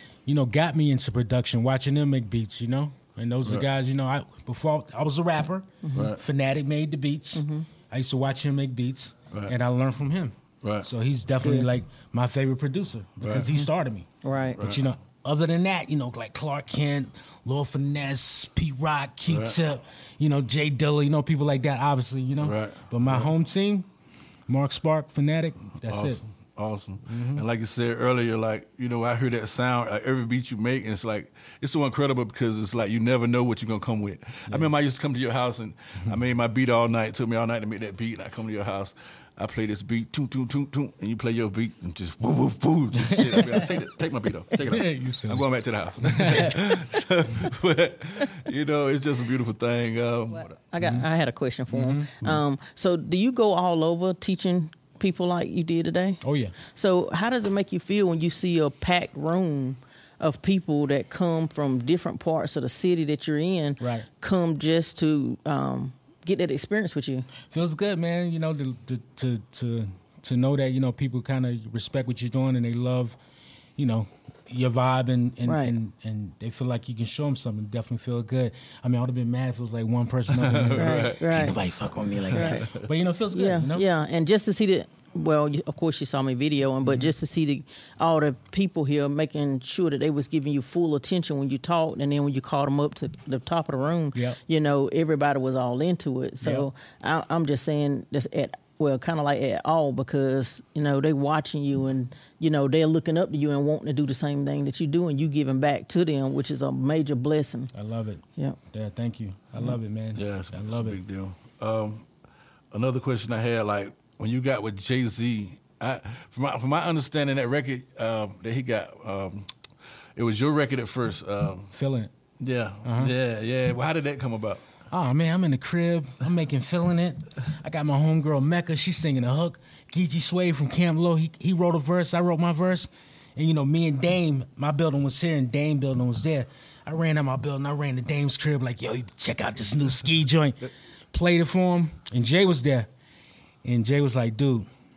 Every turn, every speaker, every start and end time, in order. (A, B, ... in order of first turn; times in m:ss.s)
0:00.2-0:23.8 A
0:05.8-0:06.1 B
0:05.9-0:06.2 C
0:07.4-0:07.7 B
0:10.6-0:10.9 C
0:11.4-0:11.7 B
0:13.2-0:13.5 C
0:14.2-0:14.6 B
0:14.6-0:14.8 C
0:19.2-0:19.6 C
0:22.4-0:23.3 C
0:24.5-0:26.2 A
0:25.8-0:50.5 C
0:27.1-0:27.4 A
0:43.1-0:43.7 A
0:44.6-0:45.4 A
0:46.0-0:46.7 A
0:50.6-0:56.2 B
0:50.8-0:51.1 A
0:51.7-0:52.1 A
0:56.2-0:56.5 A
0:56.7-1:07.2 B
1:03.8-1:04.1 A
1:07.5-1:13.2 A
1:13.8-1:23.9 A
1:15.4-1:15.7 B
1:20.3-1:21.2 C
1:20.7-1:21.6 B
1:22.3-1:22.6 B
1:22.3-1:22.8 C
1:23.3-1:47.7 B
1:26.8-1:27.1 A
1:36.4-1:36.7 A
1:47.7-1:51.0 A
1:50.1-1:52.0 C
1:52.7-1:59.5 C
2:00.2-2:01.7 C
2:01.7-2:02.1 A
2:02.4-2:04.6 C
2:02.8-2:03.1 A
2:04.9-2:22.9 A
2:23.6-2:24.7 A